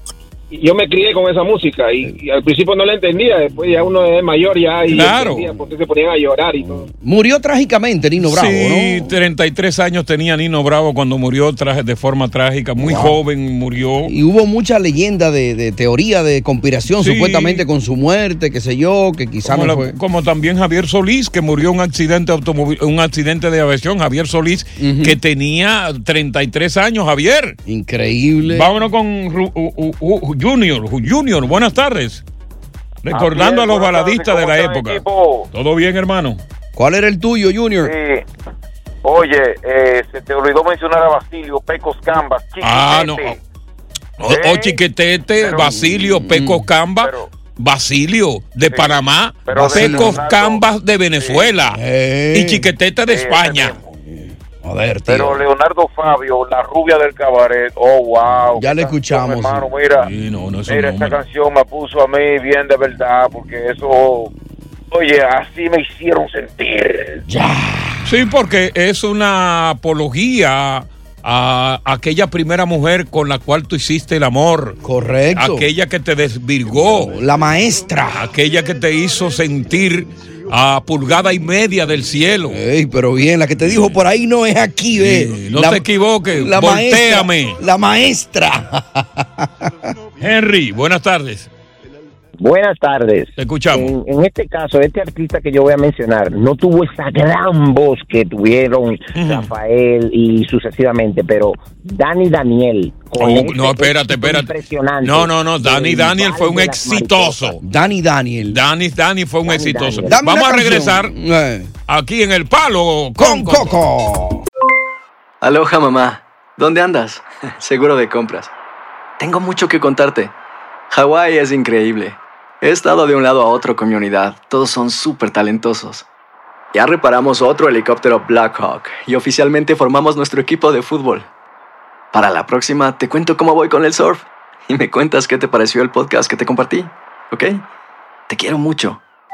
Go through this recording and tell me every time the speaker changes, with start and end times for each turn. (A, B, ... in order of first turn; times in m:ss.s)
0:00.5-0:06.9 A
0:04.9-0:05.5 B
0:06.8-0:09.1 C
0:08.2-0:14.1 B
0:12.8-0:13.2 C
0:14.1-0:20.0 C
0:16.9-0:17.6 B
0:19.4-0:27.6 B
0:24.8-0:25.2 C
0:27.7-0:28.7 C
0:28.5-0:32.2 B
0:33.0-0:36.4 B
0:33.1-0:35.5 D
0:36.8-0:37.9 C
0:37.8-0:38.2 D
0:39.0-0:43.4 D
0:42.6-0:43.4 B
0:44.2-0:51.8 B
0:44.2-0:44.8 D
0:45.4-0:45.8 D
0:45.9-0:46.7 C
0:47.0-0:47.3 D
0:48.7-0:50.6 D
0:49.5-0:50.2 C
0:51.2-0:51.5 D
0:51.7-0:52.7 C
0:52.3-0:53.8 B
0:53.1-0:53.9 D
0:54.0-0:55.4 C
0:55.1-1:00.1 D
0:58.4-0:59.7 C
1:00.0-1:01.2 B
1:00.7-1:04.3 D
1:04.9-1:07.2 D
1:07.3-1:08.1 C
1:08.0-1:14.8 B
1:14.8-1:15.7 C
1:15.3-1:17.2 B
1:16.8-1:18.3 C
1:18.1-1:22.6 B
1:22.5-1:29.9 C
1:23.6-1:24.0 B
1:25.0-1:27.6 B
1:30.2-1:31.5 B
1:32.4-1:47.6 E
1:33.4-1:33.9 B
1:39.2-1:39.5 B
1:43.2-1:47.6 B
1:47.6-1:48.6 C
1:48.5-1:51.1 B
1:49.5-1:50.2 E
1:50.0-1:51.7 C
1:51.9-1:53.8 B
1:53.2-1:54.4 C
1:55.4-1:58.5 F
1:59.2-2:00.3 F
2:00.9-2:06.0 F
2:06.7-2:11.3 F
2:12.1-2:17.6 F
2:18.3-2:19.0 F